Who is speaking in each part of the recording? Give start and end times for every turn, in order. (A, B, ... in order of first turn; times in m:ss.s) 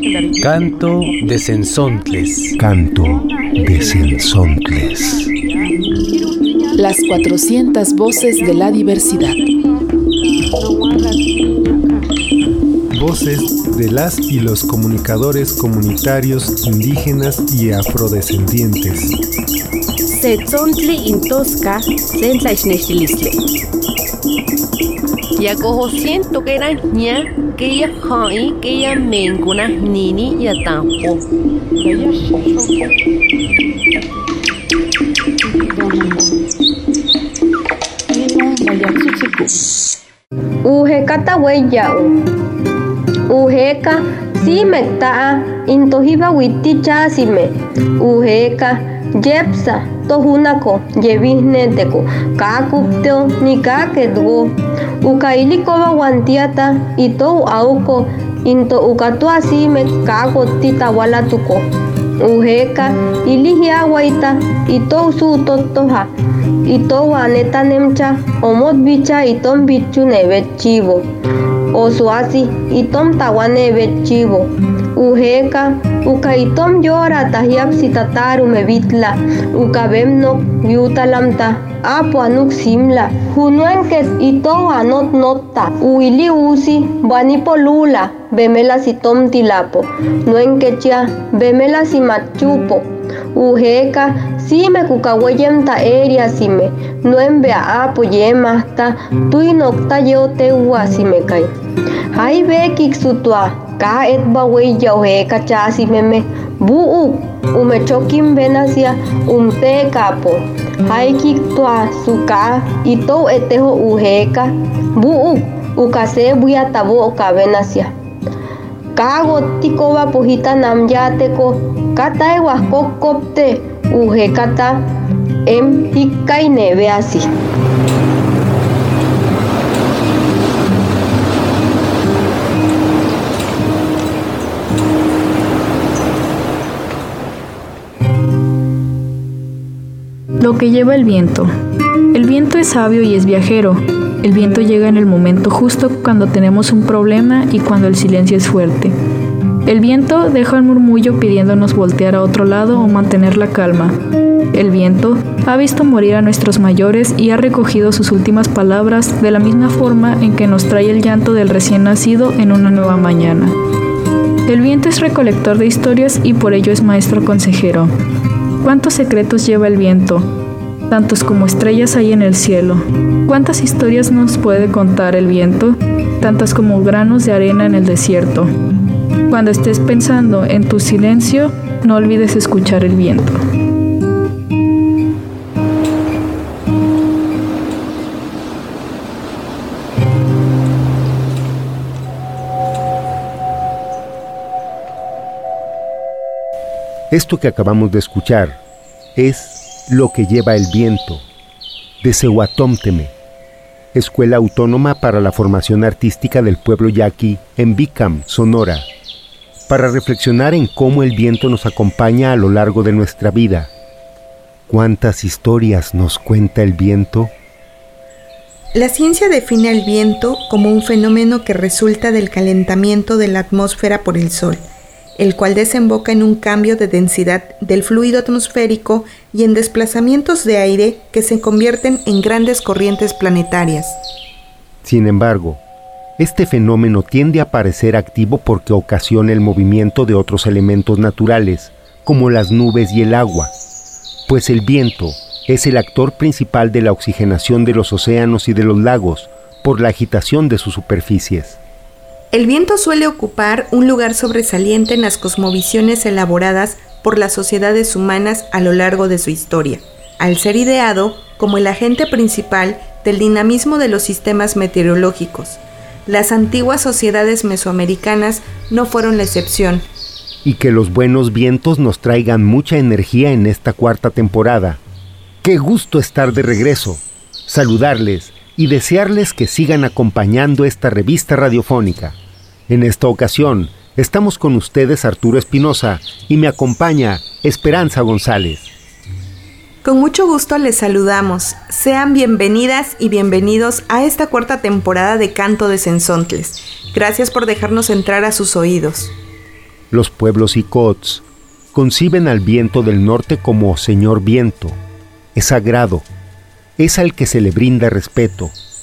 0:00.4-0:02.5 A
0:02.6-0:05.3 B
0:06.7-0:09.4 C
0:12.9-0:19.2 D
0:20.1-0:23.4 E
0:25.4-0:31.2 E
0:40.6-0:42.2 F
0:43.3-1:01.6 F
1:02.2-1:06.1 F
1:06.7-1:11.1 F
1:11.7-1:41.5 F
1:42.1-1:57.9 F
1:59.0-2:04.9 F
2:05.5-2:07.3 F
2:20.4-2:21.5 G
2:22.1-2:28.9 G
2:29.7-2:34.0 G
2:34.5-2:43.5 G
2:44.5-2:47.9 G
2:48.6-2:50.3 G
2:50.9-2:58.5 G
2:59.3-3:03.4 G
3:17.1-3:18.6 B
3:19.2-3:21.2 B
3:22.0-3:23.1 B
3:23.9-3:28.9 B
3:29.7-3:33.7 B
3:34.7-3:37.3 B
3:38.7-3:44.6 H
3:45.2-3:54.0 H
3:54.8-3:55.6 B
3:56.2-4:03.5 B
4:04.3-4:11.6 B
4:12.3-4:29.8 H
4:30.4-4:34.8 B
4:35.4-4:42.2 B
4:42.7-4:48.7 B
4:49.8-4:59.1 H
4:59.9-5:04.8 B
5:05.4-5:06.1 B
5:06.8-5:08.5 B